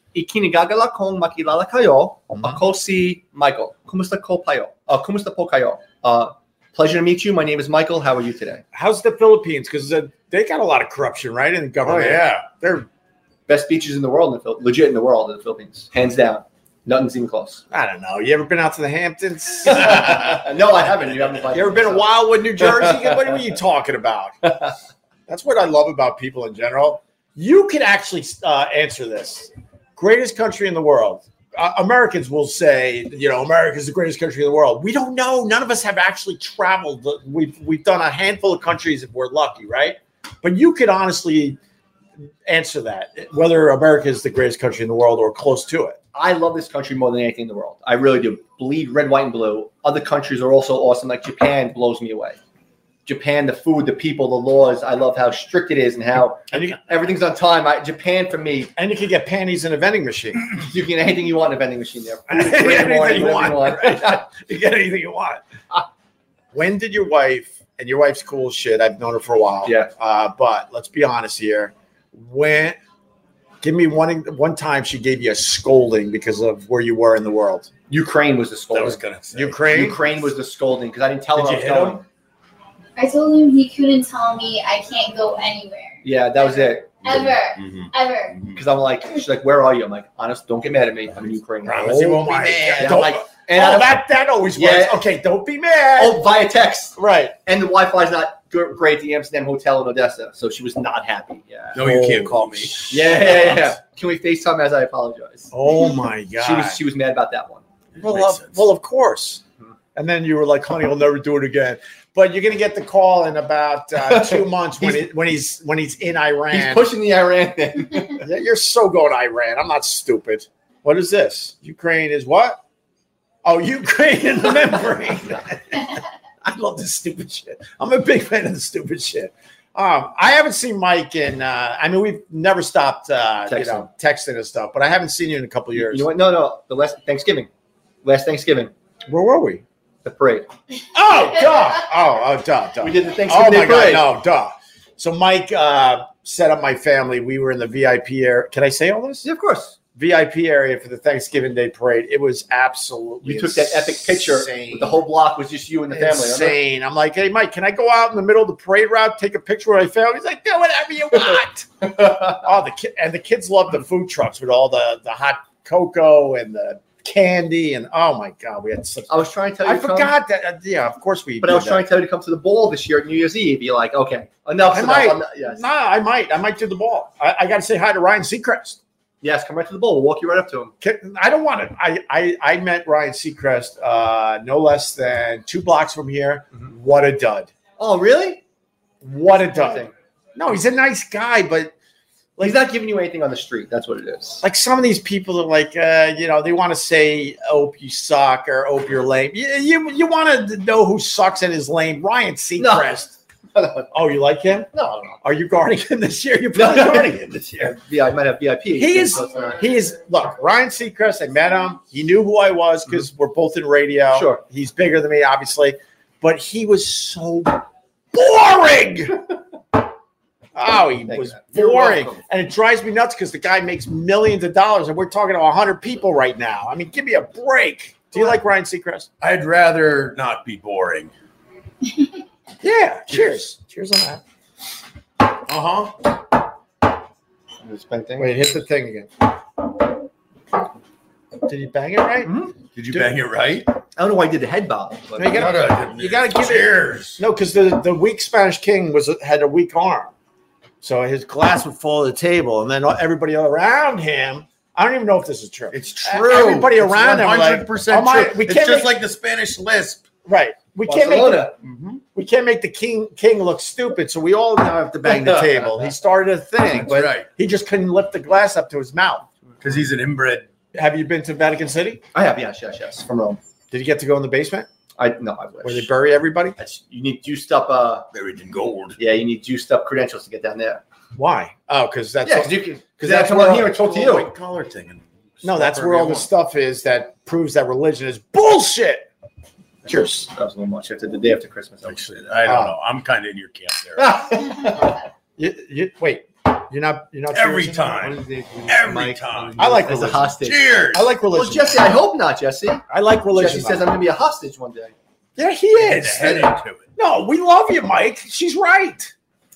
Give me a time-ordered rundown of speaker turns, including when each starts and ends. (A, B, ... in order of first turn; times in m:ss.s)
0:00.1-0:08.6 A
0:08.7-0:12.9 B
0:11.9-0:12.4 C
0:13.5-0:17.6 A
0:17.7-0:20.4 B
0:19.6-0:23.4 A
0:21.5-0:24.6 B
0:25.3-0:41.6 B
0:42.5-0:46.0 B
0:46.1-0:52.4 A
0:53.1-0:58.7 A
0:56.5-0:56.9 B
0:58.8-1:00.4 B
1:00.5-1:04.2 A
1:02.3-1:05.4 B
1:06.5-1:12.8 B
1:09.6-1:09.9 A
1:13.6-1:17.7 B
1:17.9-1:19.0 A
1:18.7-1:19.6 C
1:19.3-1:20.2 B
1:19.6-1:22.0 A
1:21.4-1:22.0 B
1:23.0-1:28.4 D
1:26.0-1:26.9 A
1:27.0-1:28.6 C
1:28.5-1:34.0 A
1:31.6-1:33.1 C
1:31.7-1:36.2 B
1:34.6-1:35.0 A
1:36.0-1:41.8 A
1:37.0-1:37.4 B
1:41.7-1:43.6 C
1:41.8-1:42.7 B
1:42.9-1:45.6 A
1:45.5-1:46.8 B
1:46.4-1:47.6 A
1:48.0-1:48.6 C
1:48.0-1:49.4 B
1:50.0-1:56.9 B
1:54.0-1:55.0 A
1:56.5-1:58.2 A
1:58.2-2:02.6 B
2:03.4-2:16.1 B
2:13.5-2:13.9 A
2:15.8-2:17.5 A
2:18.0-2:18.7 A
2:19.1-2:19.6 B
2:20.0-2:20.5 A
2:20.9-2:29.3 B
2:22.8-2:24.1 A
2:29.2-2:29.8 A
2:30.0-2:35.0 B
2:33.2-2:36.6 A
2:35.9-2:51.9 B
2:41.9-2:42.4 A
2:49.1-2:50.1 A
2:51.4-2:55.6 A
2:54.6-2:58.8 B
2:59.2-3:00.7 A
3:00.8-3:07.5 B
3:07.8-3:08.4 A
3:09.0-3:11.7 B
3:09.3-3:09.9 A
3:12.4-3:14.4 A
3:14.4-3:23.1 B
3:22.6-3:23.0 A
3:23.5-3:23.9 A
3:23.9-3:24.7 B
3:24.7-3:25.2 A
3:25.2-3:27.7 B
3:26.6-3:29.6 A
3:28.8-3:39.2 B
3:34.1-3:34.4 A
3:40.6-3:49.1 B
3:41.1-3:42.2 A
3:49.2-3:51.1 C
3:52.6-3:54.2 B
3:53.1-3:53.4 C
3:55.5-3:56.1 C
3:57.6-3:58.6 A
3:58.2-3:59.3 B
4:01.4-4:02.4 B
4:02.2-4:02.6 A
4:02.8-4:03.7 C
4:02.9-4:03.2 B
4:04.0-4:05.6 A
4:05.2-4:10.1 B
4:05.3-4:07.2 C
4:10.8-4:18.9 B
4:15.7-4:20.1 C
4:20.2-4:21.5 B
4:20.9-4:21.6 A
4:21.6-4:22.0 C
4:22.2-4:29.3 B
4:25.0-4:25.9 A
4:26.8-4:27.3 C
4:29.6-4:30.5 C
4:30.7-4:32.0 B
4:32.1-4:33.4 A
4:33.7-4:34.7 B
4:35.0-4:35.9 A
4:35.6-4:36.6 B
4:36.6-4:38.1 A
4:38.1-4:39.0 C
4:39.0-4:40.8 A
4:41.2-4:43.8 B
4:42.2-4:44.3 A
4:43.6-4:46.3 C
4:45.4-4:49.1 B
4:49.9-4:50.3 B
4:49.9-4:52.1 A
4:51.9-4:54.3 C
4:52.5-4:52.8 B
4:54.0-4:55.0 A
4:55.4-4:58.0 B
4:57.3-4:59.6 C
4:58.0-5:00.6 A
4:59.6-5:00.3 B
5:00.4-5:01.1 C
5:00.9-5:01.9 B
5:01.3-5:04.9 A
5:02.9-5:03.9 B
5:05.4-5:09.1 B
5:05.8-5:06.9 C